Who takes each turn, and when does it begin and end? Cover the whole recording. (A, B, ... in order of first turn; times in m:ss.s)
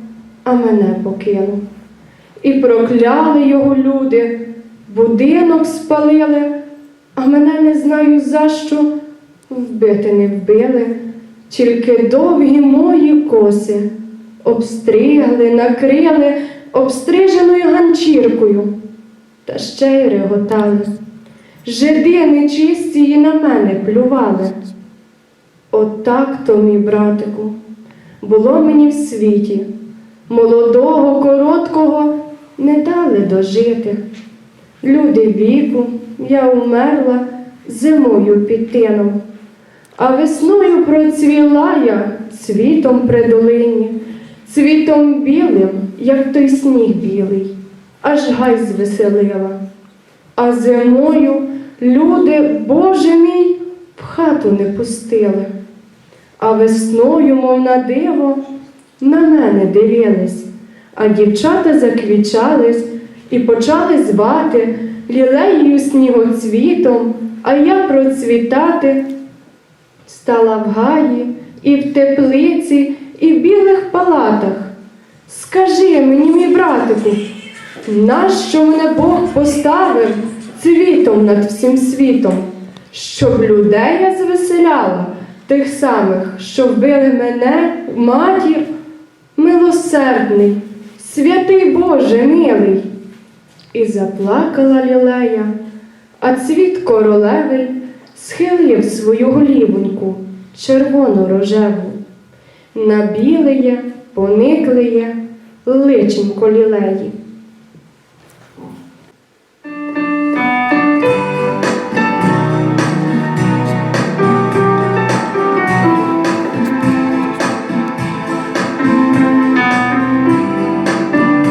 0:00.4-0:01.6 A
0:02.4-0:06.5 A
0:07.2-0:08.9 A
0:09.5-0:11.0 A
0:11.5-0:13.9 A
0:14.4-0:18.7 A
0:19.4-0:20.9 A
0:21.6-0:24.6 A
0:25.7-0:27.6 A
0:28.2-0:29.7 A
0:30.3-0:34.0 A
0:34.8-0:39.2 A
0:40.0-0:49.6 A
0:50.4-0:55.5 A
0:56.4-0:58.4 A
0:59.0-1:09.0 A
1:10.1-1:14.7 A
1:15.3-1:17.2 A
1:17.9-1:28.7 A
1:29.4-1:32.8 A
1:33.7-1:35.5 A
1:36.2-1:42.0 A
1:42.7-1:47.1 A